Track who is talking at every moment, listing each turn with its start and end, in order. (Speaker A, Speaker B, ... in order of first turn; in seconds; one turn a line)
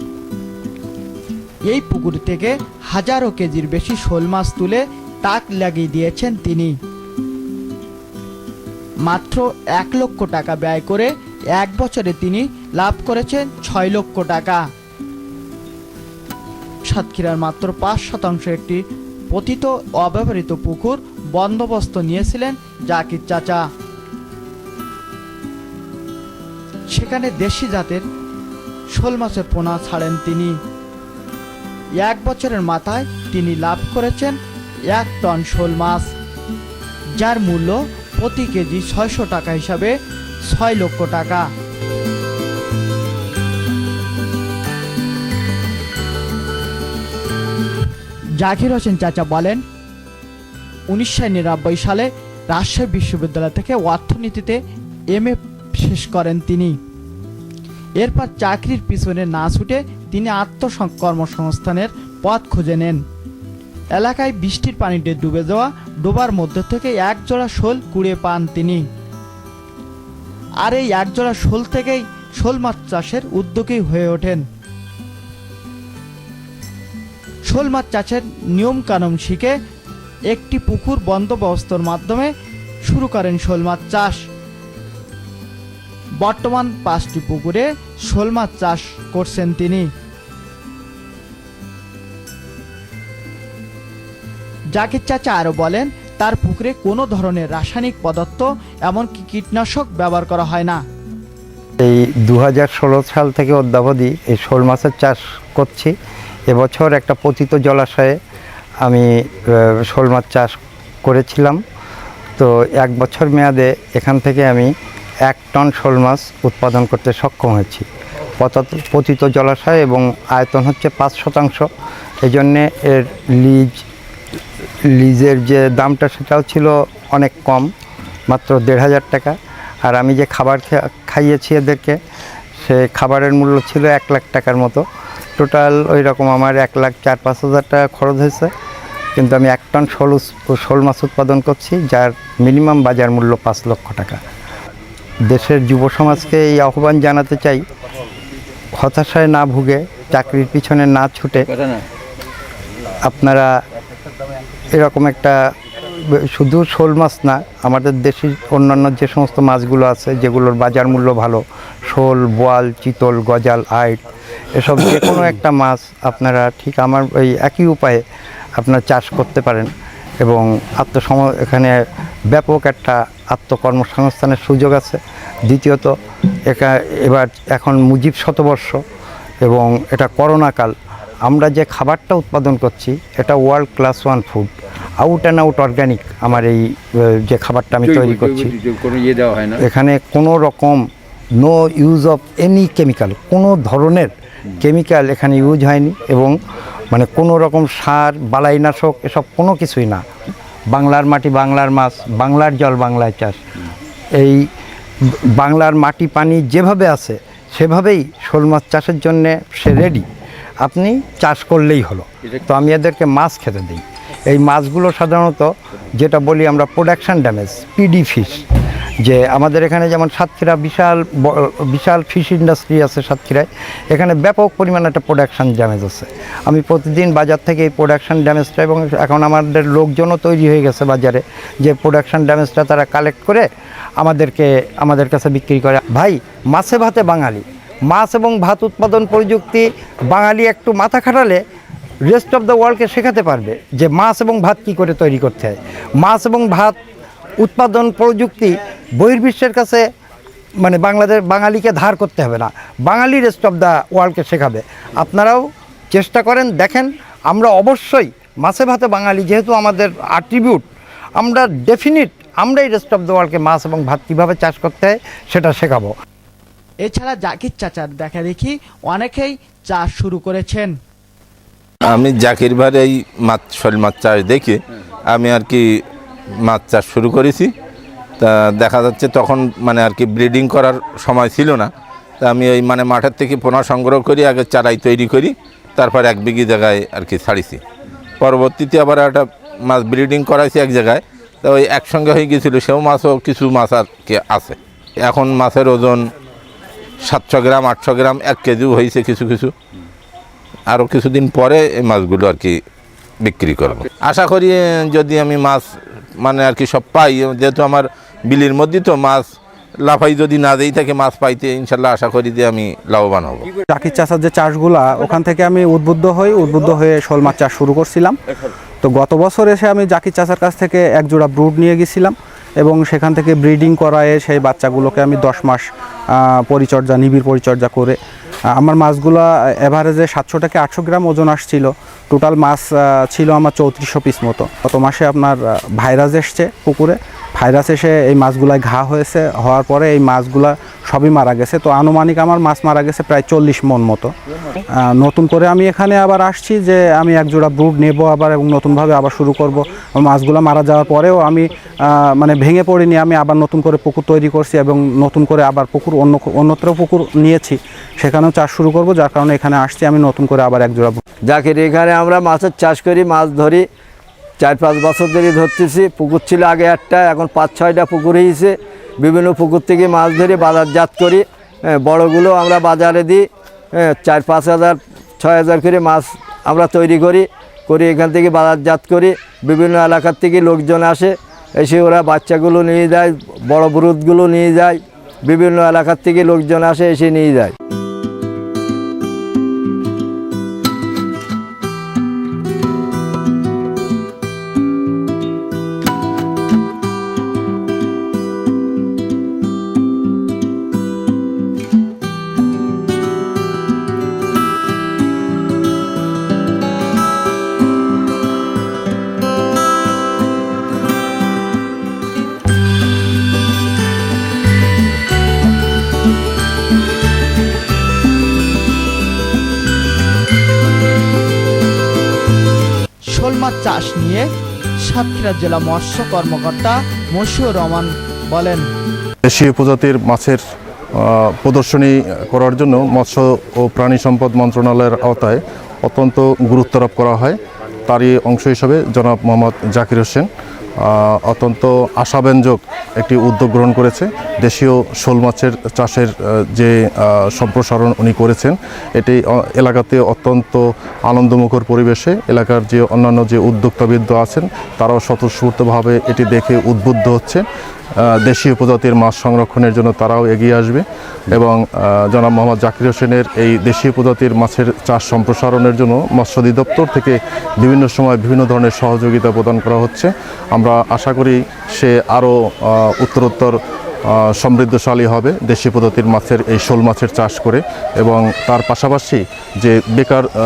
Speaker A: 1.7-6.8
Speaker A: 9.1-14.6
Speaker A: 16.9-23.7
Speaker A: 26.9-28.0
Speaker A: 28.9-30.6
Speaker A: 32.0-36.1
Speaker A: 37.2-40.0
Speaker A: 40.5-41.5
Speaker A: 48.4-49.6
Speaker A: 50.9-54.6
Speaker A: 55.1-56.8
Speaker A: 58.0-63.0
Speaker A: 64.0-68.8
Speaker A: 70.6-74.4
Speaker A: 77.5-79.5
Speaker A: 80.3-82.3
Speaker A: 82.9-84.2
Speaker A: 86.2-89.9
Speaker A: 94.8-100.8
Speaker B: 101.8-105.9
Speaker B: 106.5-108.2
Speaker B: 108.8-110.5
Speaker B: 111.0-111.6
Speaker B: 112.4-114.7
Speaker B: 115.3-117.9
Speaker B: 118.4-121.7
Speaker B: 122.2-123.8
Speaker B: 124.9-127.7
Speaker B: 128.3-132.0
Speaker B: 132.6-134.8
Speaker B: 135.4-138.5
Speaker B: 139.2-144.2
Speaker B: 145.2-147.6
Speaker B: 148.8-151.4
Speaker B: 153.0-153.5
Speaker B: 154.8-155.4
Speaker B: 156.1-164.0
Speaker B: 164.6-168.0
Speaker B: 168.6-169.7
Speaker B: 170.2-171.8
Speaker B: 172.3-175.9
Speaker B: 176.5-178.8
Speaker B: 179.4-180.7
Speaker B: 181.3-188.7
Speaker B: 189.4-190.9
Speaker B: 191.4-196.4
Speaker B: 196.9-200.0
Speaker B: 200.7-203.4
Speaker B: 204.2-204.5
Speaker B: 205.1-210.1
Speaker B: 210.6-218.4
Speaker B: 219.0-233.5
Speaker B: 234.0-241.4
Speaker B: 242.1-246.8
Speaker B: 247.4-249.9
Speaker B: 250.6-260.6
Speaker B: 261.2-265.9
Speaker A: 266.8-270.8
Speaker C: 271.8-274.6
Speaker C: 275.1-275.6
Speaker C: 276.5-277.5
Speaker C: 278.2-287.6
Speaker C: 288.2-296.0
Speaker C: 297.0-299.5
Speaker C: 300.7-302.6
Speaker C: 303.2-305.7
Speaker C: 306.2-309.3
Speaker C: 309.8-313.5
Speaker D: 313.8-318.2
Speaker D: 318.8-325.7
Speaker D: 326.2-328.0
Speaker D: 328.6-344.1
Speaker D: 344.8-361.0
Speaker E: 361.3-363.7
Speaker E: 364.4-387.5
Speaker A: 423.1-424.3
Speaker A: 424.8-428.7
Speaker F: 429.3-430.4
Speaker F: 431.4-437.4
Speaker D: 432.3-432.9
Speaker D: 433.9-435.3
Speaker D: 435.9-437.3
Speaker F: 437.9-440.3
Speaker D: 438.7-440.2
Speaker F: 441.3-442.6
Speaker D: 442.0-442.5
Speaker D: 443.0-444.6
Speaker F: 443.1-446.7
Speaker D: 445.4-446.0
Speaker F: 447.4-450.6
Speaker D: 447.4-448.0
Speaker D: 449.0-450.5
Speaker F: 451.1-457.4
Speaker D: 452.0-453.1
Speaker D: 453.8-456.7
Speaker F: 458.3-461.5
Speaker D: 459.5-460.3
Speaker D: 462.2-462.5
Speaker F: 462.2-472.3
Speaker D: 463.1-463.7
Speaker D: 464.6-465.1
Speaker D: 466.0-467.1
Speaker D: 467.9-468.7
Speaker D: 469.4-469.9
Speaker D: 470.6-471.0
Speaker F: 473.0-473.5
Speaker F: 474.4-480.3
Speaker D: 477.1-477.4
Speaker D: 478.5-478.8